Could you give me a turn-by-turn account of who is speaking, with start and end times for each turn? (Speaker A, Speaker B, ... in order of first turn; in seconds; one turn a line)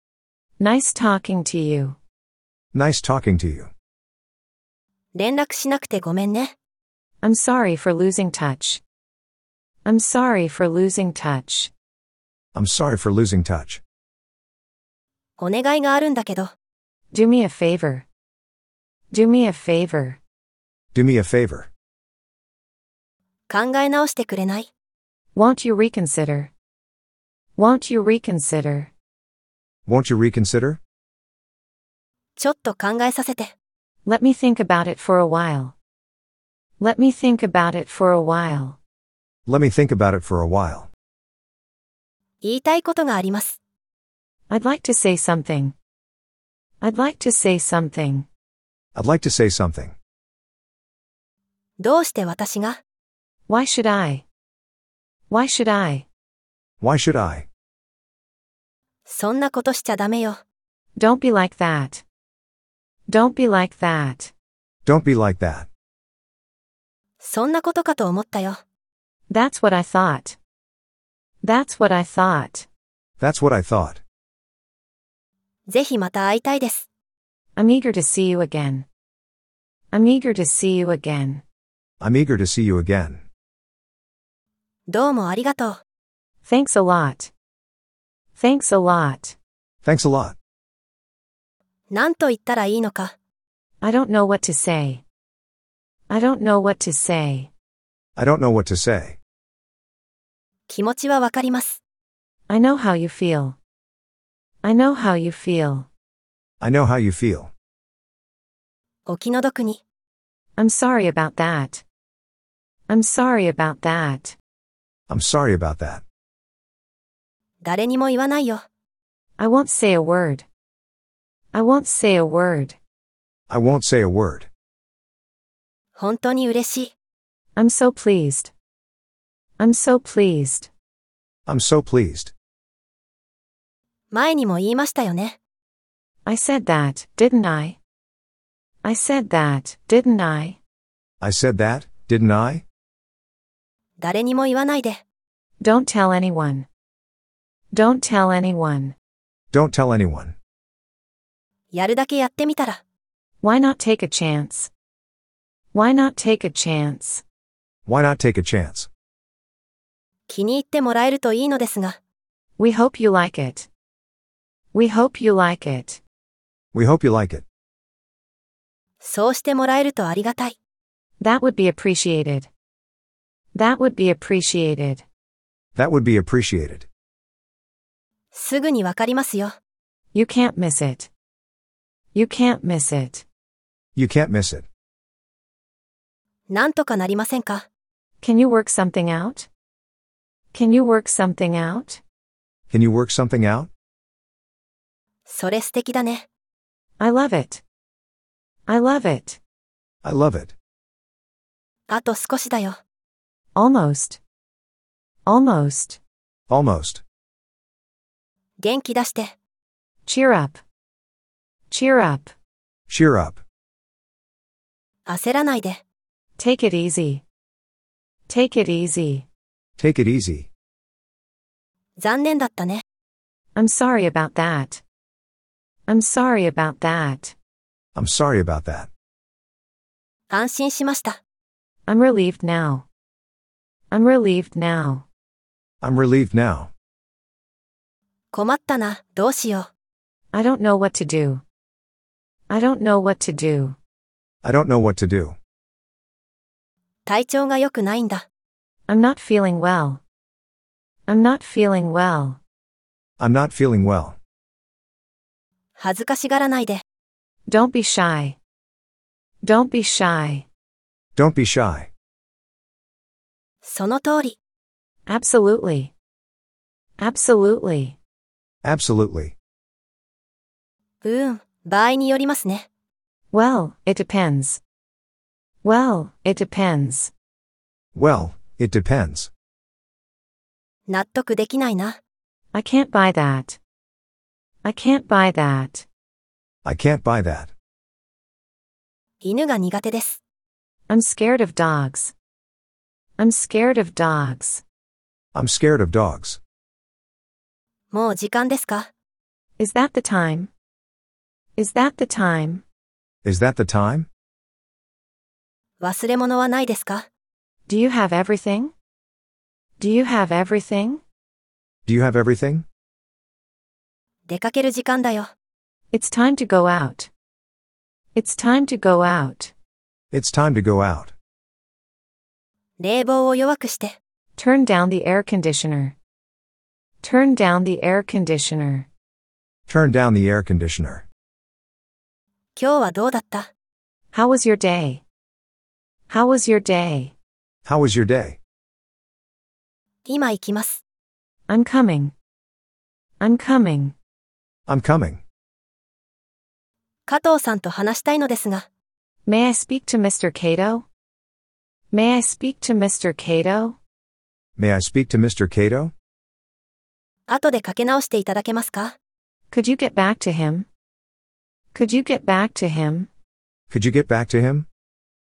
Speaker A: 0.6-2.0
Speaker B: 2.7-3.7
Speaker C: 5.2-6.5
Speaker A: 7.2-8.8
Speaker A: 9.8-11.7
Speaker B: 12.5-13.8
Speaker C: 15.4-16.5
Speaker A: 17.1-18.1
Speaker A: 19.1-20.2
Speaker B: 20.9-21.7
Speaker C: 23.5-24.7
Speaker A: 25.3-26.5
Speaker A: 27.6-28.9
Speaker B: 29.9-30.8
Speaker C: 32.4-33.5
Speaker A: 34.0-35.8
Speaker A: 36.8-38.8
Speaker B: 39.5-40.9
Speaker C: 42.4-43.6
Speaker A: 44.5-45.8
Speaker A: 46.8-48.3
Speaker B: 49.0-50.0
Speaker C: 51.8-52.8
Speaker A: 53.5-54.2
Speaker A: 55.3-56.1
Speaker B: 56.8-57.5
Speaker C: 59.1-60.4
Speaker A: 61.0-62.0
Speaker A: 63.1-64.3
Speaker B: 64.8-65.7
Speaker C: 67.2-68.6
Speaker A: 69.3-70.4
Speaker A: 71.4-72.7
Speaker B: 73.2-74.0
Speaker C: 75.7-76.9
Speaker A: 77.6-78.9
Speaker A: 79.9-81.4
Speaker B: 82.0-83.2
Speaker C: 84.9-85.8
Speaker A: 86.4-87.3
Speaker A: 88.3-89.4
Speaker B: 89.8-90.4
Speaker C: 91.9-93.1
Speaker A: 93.8-95.0
Speaker A: 96.1-97.5
Speaker B: 98.2-99.2
Speaker C: 100.7-101.8
Speaker A: 102.5-103.6
Speaker A: 104.6-105.9
Speaker B: 106.6-107.5
Speaker C: 109.1-109.8
Speaker A: 110.6-111.8
Speaker A: 112.9-114.4
Speaker B: 115.1-116.0
Speaker C: 117.6-118.6
Speaker A: 119.4-120.5
Speaker A: 121.5-122.8
Speaker B: 123.5-124.5
Speaker C: 126.0-126.9
Speaker A: 127.6-128.5
Speaker A: 129.6-130.7
Speaker B: 131.5-132.3
Speaker C: 134.1-135.4
Speaker A: 136.2-137.8
Speaker A: 138.8-140.6
Speaker B: 141.2-142.7
Speaker C: 144.0-145.0
Speaker A: 145.6-146.7
Speaker A: 147.7-148.9
Speaker B: 149.5-150.4
Speaker C: 151.7-152.8
Speaker A: 153.4-154.7
Speaker A: 155.7-157.2
Speaker B: 157.9-158.9
Speaker C: 160.3-162.0
Speaker A: 162.6-163.7
Speaker A: 164.7-166.0
Speaker B: 166.7-167.4
Speaker C: 169.0-170.6
Speaker A: 171.2-172.5
Speaker A: 173.5-175.1
Speaker B: 175.8-176.9
Speaker C: 178.3-179.5
Speaker A: 180.1-181.1
Speaker A: 182.1-183.2
Speaker B: 183.9-184.7
Speaker C: 186.5-187.7
Speaker A: 188.2-189.5
Speaker A: 190.5-192.0
Speaker B: 192.7-193.7
Speaker C: 195.3-196.3
Speaker A: 197.0-197.6
Speaker A: 198.7-199.4
Speaker B: 200.0-200.6
Speaker C: 201.9-202.8
Speaker A: 203.6-204.2
Speaker A: 205.3-206.0
Speaker B: 206.5-207.0
Speaker C: 208.6-209.3
Speaker A: 210.1-210.6
Speaker A: 211.7-212.3
Speaker B: 212.9-213.4
Speaker C: 215.1-215.8
Speaker A: 216.4-217.2
Speaker A: 218.3-219.3
Speaker B: 219.8-220.5
Speaker C: 222.0-222.8
Speaker A: 223.6-224.8
Speaker A: 225.9-227.3
Speaker B: 227.9-228.9
Speaker C: 230.3-231.2
Speaker A: 231.9-232.8
Speaker A: 233.9-235.1
Speaker B: 235.8-236.7
Speaker C: 238.3-239.7
Speaker A: 240.3-241.4
Speaker A: 242.5-243.8
Speaker B: 244.4-245.4
Speaker C: 247.1-248.2
Speaker A: 248.9-250.0
Speaker A: 251.1-252.4
Speaker B: 253.2-254.2
Speaker C: 255.8-256.8
Speaker A: 257.5-258.4
Speaker A: 259.4-260.5
Speaker B: 261.2-261.9
Speaker C: 263.6-264.4
Speaker A: 265.1-265.9
Speaker A: 267.0-268.0
Speaker B: 268.6-269.4
Speaker C: 271.0-272.7
Speaker A: 273.3-274.6
Speaker A: 275.6-277.1
Speaker B: 277.9-279.3
Speaker C: 280.9-282.0
Speaker A: 282.5-283.6
Speaker A: 284.6-285.9
Speaker B: 286.6-287.5
Speaker C: 289.2-290.2
Speaker A: 290.9-292.1
Speaker A: 293.2-294.6
Speaker B: 295.3-296.4
Speaker C: 297.9-298.9
Speaker A: 299.6-300.5
Speaker A: 301.6-302.6
Speaker B: 303.2-304.1
Speaker C: 305.8-307.1
Speaker A: 307.7-308.7
Speaker A: 309.8-311.0
Speaker B: 311.9-312.7
Speaker C: 314.3-315.3
Speaker A: 315.9-317.1
Speaker A: 318.1-319.5
Speaker B: 320.1-321.1
Speaker C: 322.8-324.0
Speaker A: 324.4-326.0
Speaker A: 327.0-328.9
Speaker B: 329.7-331.1
Speaker C: 332.6-333.5
Speaker A: 334.1-335.0
Speaker A: 336.1-337.1
Speaker B: 337.6-338.4
Speaker C: 340.1-340.8
Speaker A: 341.5-342.1
Speaker A: 343.2-343.9
Speaker B: 344.7-345.2
Speaker C: 347.1-348.7
Speaker A: 349.3-350.9
Speaker A: 351.9-353.8
Speaker B: 354.6-355.9
Speaker C: 357.3-358.9
Speaker A: 359.5-360.7
Speaker A: 361.7-363.1
Speaker B: 363.7-364.7